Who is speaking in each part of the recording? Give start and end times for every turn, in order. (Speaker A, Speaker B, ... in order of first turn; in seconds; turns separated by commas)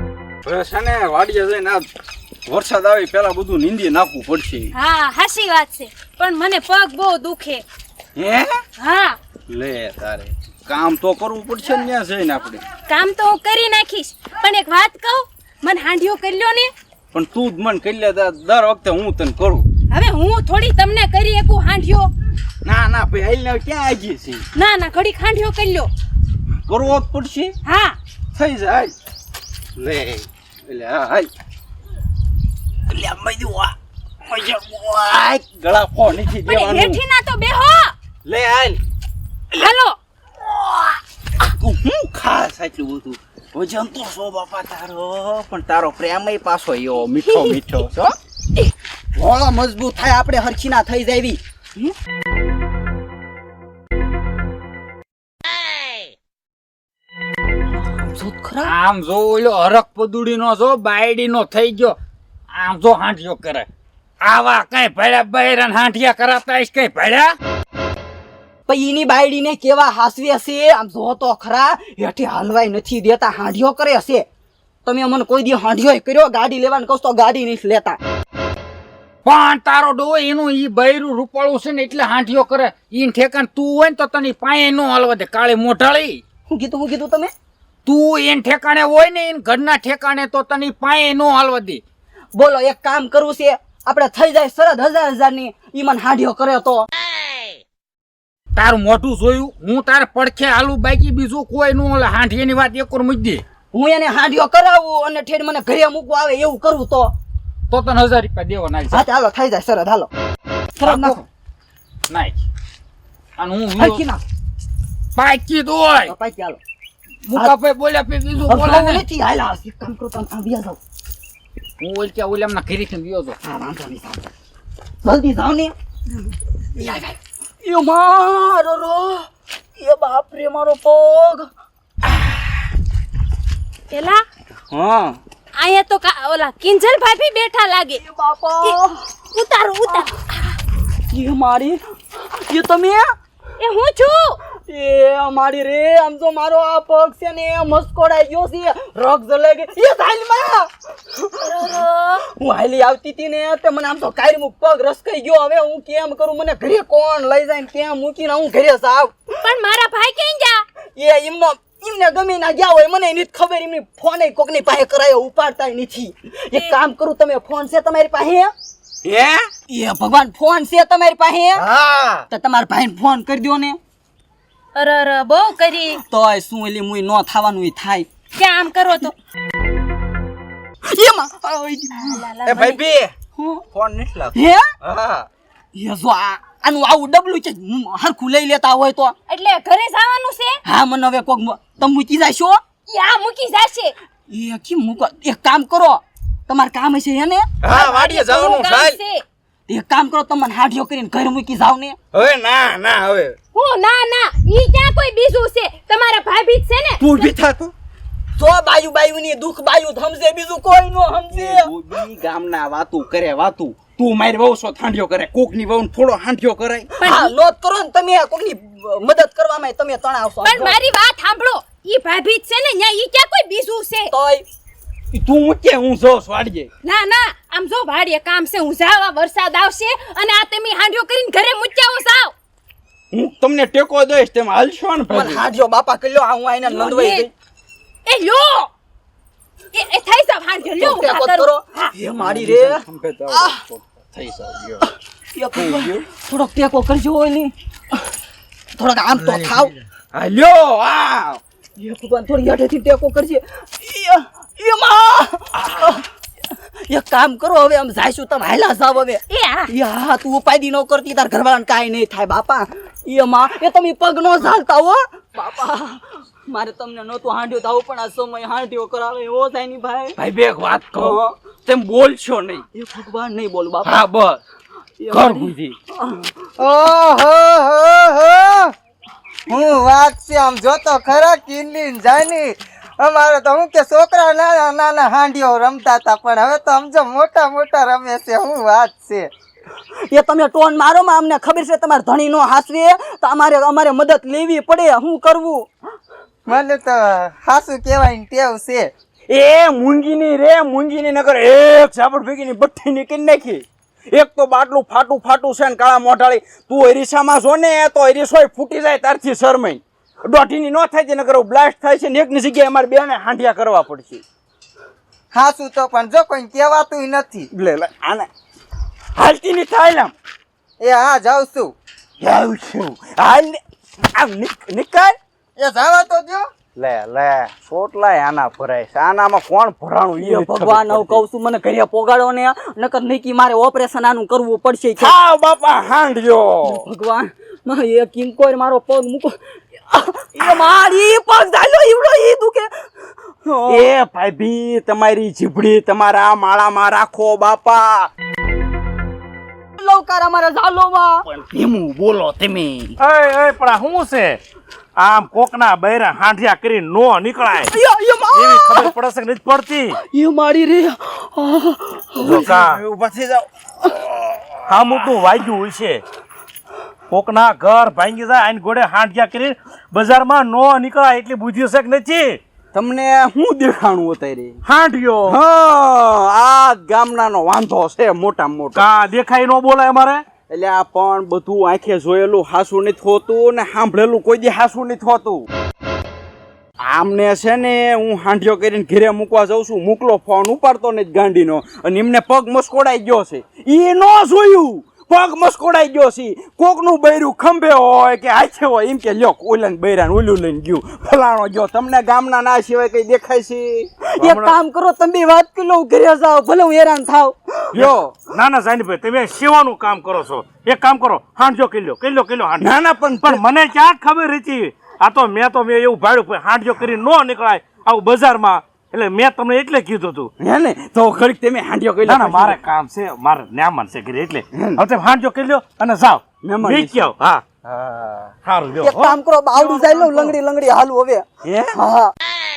Speaker A: 0.4-1.9, Speaker A: 2.5-4.7, Speaker B: 4.7-7.6, Speaker A: 8.2-8.6, Speaker B: 8.8-9.2, Speaker A: 9.5-12.6, Speaker B: 12.9-16.7, Speaker A: 17.1-19.6, Speaker B: 19.9-22.1, Speaker A: 22.6-24.4, Speaker B: 24.5-25.9, Speaker A: 26.7-27.5, Speaker B: 27.6-28.0, Speaker A: 28.3-28.9, Speaker A: 29.8-31.3, Speaker A: 32.9-37.0, Speaker B: 36.5-37.9, Speaker A: 38.2-38.8, Speaker B: 39.5-40.0, Speaker A: 41.4-48.1, Speaker C: 49.1-51.9, Speaker C: 57.8-58.7, Speaker D: 58.6-62.0, Speaker D: 62.5-63.7, Speaker D: 64.2-67.3, Speaker C: 68.7-74.2, Speaker C: 74.8-78.0, Speaker D: 79.2-86.2, Speaker C: 86.5-87.3, Speaker D: 87.8-91.8, Speaker C: 92.3-96.8, Speaker D: 98.5-103.4, Speaker C: 103.7-107.1, Speaker D: 107.7-109.0, Speaker C: 108.9-110.1, Speaker C: 110.8-111.2, Speaker D: 110.8-111.2, Speaker D: 112.1-112.4, Speaker D: 113.4-114.0, Speaker C: 113.8-114.2, Speaker D: 115.2-116.1, Speaker C: 116.0-116.6, Speaker D: 117.2-119.0, Speaker C: 118.5-120.8, Speaker D: 121.8-123.4, Speaker C: 123.4-124.3, Speaker C: 125.0-125.7, Speaker C: 126.7-131.5, Speaker B: 133.9-134.2, Speaker A: 134.7-135.2, Speaker B: 135.6-138.0, Speaker C: 137.9-138.9, Speaker B: 138.6-140.6, Speaker C: 141.1-143.1, Speaker B: 143.6-144.4, Speaker C: 144.6-159.2, Speaker B: 151.4-152.2, Speaker B: 159.4-160.6, Speaker C: 160.9-168.5, Speaker A: 169.0-169.5, Speaker C: 169.7-171.7, Speaker E: 171.6-172.2, Speaker C: 172.3-173.8, Speaker B: 174.7-176.0, Speaker C: 176.0-178.1, Speaker B: 178.3-179.1, Speaker C: 180.9-182.2, Speaker B: 182.0-182.8, Speaker A: 182.4-183.1, Speaker C: 183.3-183.6, Speaker A: 183.7-185.3, Speaker C: 184.3-184.7, Speaker C: 185.7-189.1, Speaker B: 189.3-190.6, Speaker C: 190.6-192.6, Speaker B: 192.9-193.9, Speaker C: 194.3-197.5, Speaker A: 197.6-199.0, Speaker B: 197.7-199.2, Speaker C: 199.7-202.0, Speaker A: 202.1-203.4, Speaker B: 203.5-207.3, Speaker A: 207.0-207.7, Speaker C: 208.4-211.7, Speaker A: 211.3-216.9, Speaker B: 217.0-217.3, Speaker C: 217.0-220.8, Speaker B: 220.4-224.1, Speaker C: 224.1-224.4, Speaker A: 225.1-226.7, Speaker B: 226.8-232.3, Speaker A: 233.1-235.5, Speaker C: 235.1-237.3, Speaker B: 236.6-237.3, Speaker B: 238.1-238.7, Speaker B: 239.7-241.9, Speaker C: 240.8-243.6, Speaker A: 242.1-244.9, Speaker C: 244.8-247.5, Speaker A: 245.5-246.1, Speaker C: 248.8-249.7, Speaker A: 249.2-251.4, Speaker C: 251.8-256.1, Speaker C: 256.9-270.2, Speaker B: 259.3-259.7, Speaker A: 270.2-272.6, Speaker C: 272.7-274.0, Speaker A: 273.8-274.4, Speaker C: 275.0-276.3, Speaker A: 275.1-275.8, Speaker E: 276.6-278.7, Speaker E: 279.5-289.3, Speaker C: 290.1-295.7, Speaker E: 296.4-298.9, Speaker A: 299.3-314.2, Speaker E: 315.3-317.5, Speaker A: 317.5-318.3, Speaker A: 319.1-320.1, Speaker E: 320.8-321.7, Speaker A: 322.2-323.6, Speaker A: 324.1-325.2, Speaker E: 325.6-326.5, Speaker A: 326.8-331.2, Speaker C: 330.2-335.2, Speaker A: 335.0-336.8, Speaker C: 336.7-339.4, Speaker C: 339.9-342.7, Speaker C: 343.4-343.9, Speaker A: 343.7-348.1, Speaker C: 349.8-351.2, Speaker A: 351.3-352.9, Speaker F: 353.0-354.4, Speaker F: 355.0-357.7, Speaker C: 357.6-358.9, Speaker F: 358.3-360.0, Speaker C: 360.0-362.6, Speaker F: 362.2-362.8, Speaker A: 362.5-363.5, Speaker A: 364.1-365.1, Speaker F: 364.7-366.0, Speaker F: 367.1-372.4, Speaker A: 372.7-378.8, Speaker F: 378.7-380.2, Speaker A: 380.5-385.4, Speaker A: 386.8-403.9, Speaker C: 404.2-407.8, Speaker F: 404.2-404.5, Speaker A: 407.7-408.2, Speaker F: 407.8-420.3, Speaker A: 412.6-413.4, Speaker A: 420.4-422.6, Speaker F: 422.0-427.4, Speaker A: 424.5-424.8, Speaker A: 426.4-427.1, Speaker A: 427.6-428.4, Speaker F: 428.4-429.2, Speaker C: 428.8-432.1, Speaker A: 429.6-430.3, Speaker A: 431.4-431.8